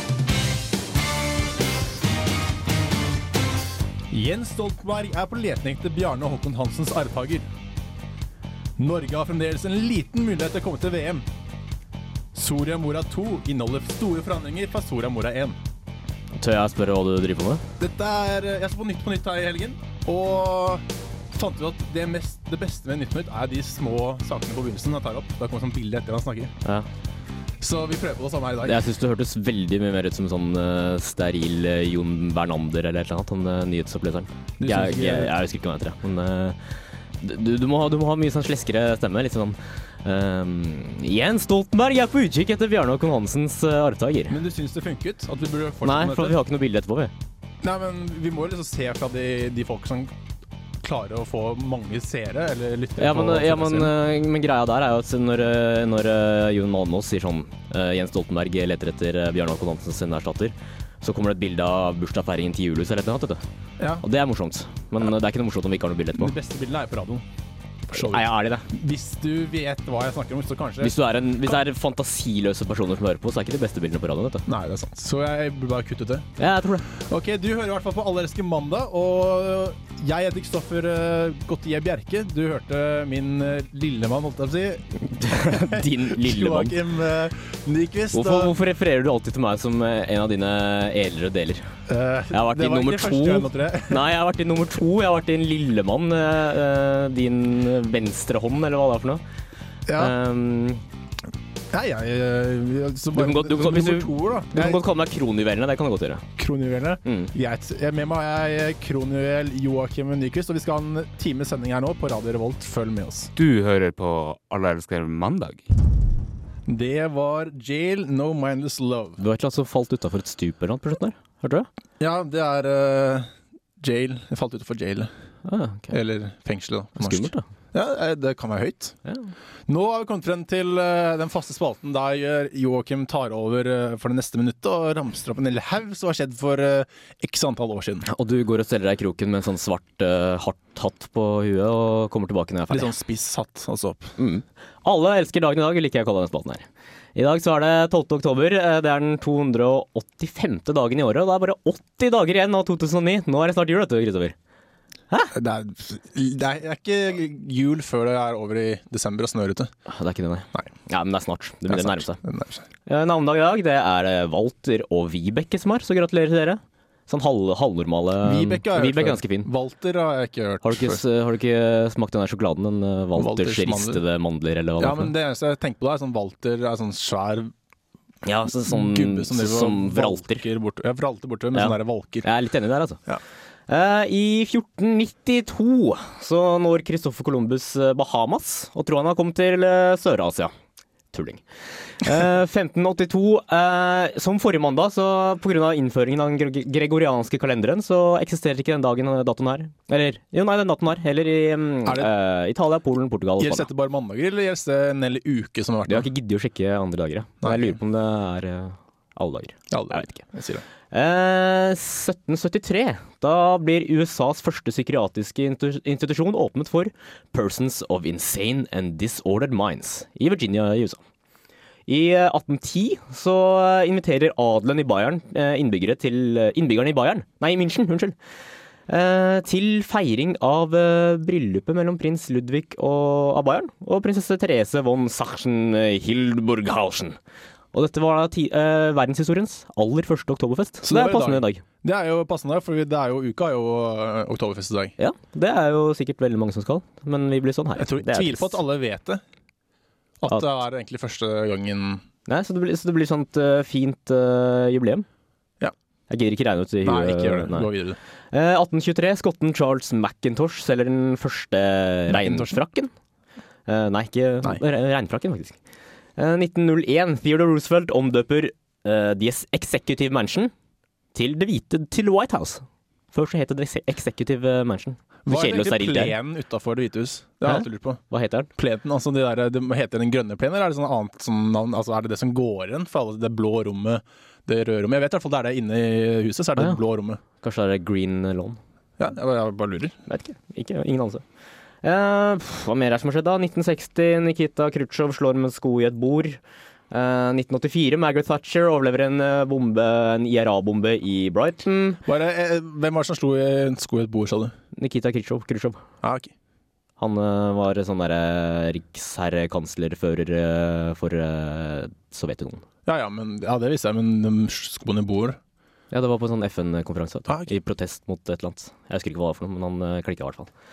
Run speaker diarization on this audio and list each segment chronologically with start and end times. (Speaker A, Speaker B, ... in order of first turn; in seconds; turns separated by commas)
Speaker A: 4.1-7.5, Speaker A: 8.8-11.3, Speaker A: 12.3-15.6, Speaker B: 16.3-17.6, Speaker A: 17.8-26.5, Speaker A: 27.6-28.9, Speaker B: 28.6-36.6, Speaker A: 34.6-35.4, Speaker B: 37.2-44.4, Speaker A: 44.3-46.4, Speaker B: 45.8-47.1, Speaker A: 47.6-50.1, Speaker A: 50.8-54.0, Speaker B: 53.0-63.4, Speaker B: 64.0-66.3, Speaker A: 66.2-67.2, Speaker A: 67.9-71.6, Speaker B: 67.9-68.7, Speaker B: 70.8-74.5, Speaker A: 74.5-76.3, Speaker B: 76.4-76.9, Speaker A: 76.9-88.5, Speaker B: 85.1-86.8, Speaker B: 88.1-91.7, Speaker A: 91.9-94.1, Speaker B: 92.3-99.2, Speaker A: 99.9-100.1, Speaker B: 100.0-100.8, Speaker A: 101.7-104.8, Speaker B: 103.1-106.3, Speaker A: 106.4-113.3, Speaker B: 107.0-107.3, Speaker C: 113.4-115.7, Speaker A: 116.7-119.2, Speaker B: 119.2-121.7, Speaker A: 122.0-125.1, Speaker B: 125.5-126.0, Speaker A: 125.9-129.0, Speaker B: 127.0-127.5, Speaker B: 129.1-129.3, Speaker A: 129.7-138.1, Speaker B: 138.0-142.9, Speaker A: 142.7-144.1, Speaker B: 144.2-154.3, Speaker A: 155.3-159.7, Speaker B: 159.9-162.2, Speaker A: 161.7-162.7, Speaker B: 162.9-169.5, Speaker A: 168.2-171.0, Speaker B: 170.6-175.1, Speaker A: 173.2-174.0, Speaker A: 174.8-177.5, Speaker B: 178.2-180.5, Speaker A: 178.6-182.3, Speaker B: 181.5-183.0, Speaker B: 183.7-190.5, Speaker B: 191.1-203.7, Speaker A: 201.8-202.1, Speaker A: 203.4-206.1, Speaker B: 205.9-210.2, Speaker A: 207.4-207.8, Speaker A: 209.7-210.6, Speaker B: 210.9-221.0, Speaker B: 221.9-228.2, Speaker B: 228.9-237.2, Speaker B: 237.7-241.6, Speaker A: 240.8-244.9, Speaker B: 245.0-248.6, Speaker A: 247.8-249.2, Speaker A: 250.2-252.0, Speaker B: 252.3-255.1, Speaker B: 256.1-257.7, Speaker A: 256.8-258.0, Speaker B: 258.3-262.9, Speaker A: 262.1-262.6, Speaker B: 263.7-265.6, Speaker B: 266.2-270.5, Speaker B: 271.1-276.2, Speaker A: 275.3-278.0, Speaker B: 277.4-278.5, Speaker A: 278.6-287.2, Speaker B: 287.4-288.6, Speaker A: 289.0-290.0, Speaker B: 290.1-291.2, Speaker B: 291.8-296.4, Speaker B: 296.9-302.0, Speaker A: 302.1-304.6, Speaker B: 304.7-305.8, Speaker A: 306.0-306.3, Speaker B: 307.0-312.6, Speaker A: 312.9-315.4, Speaker B: 315.9-320.5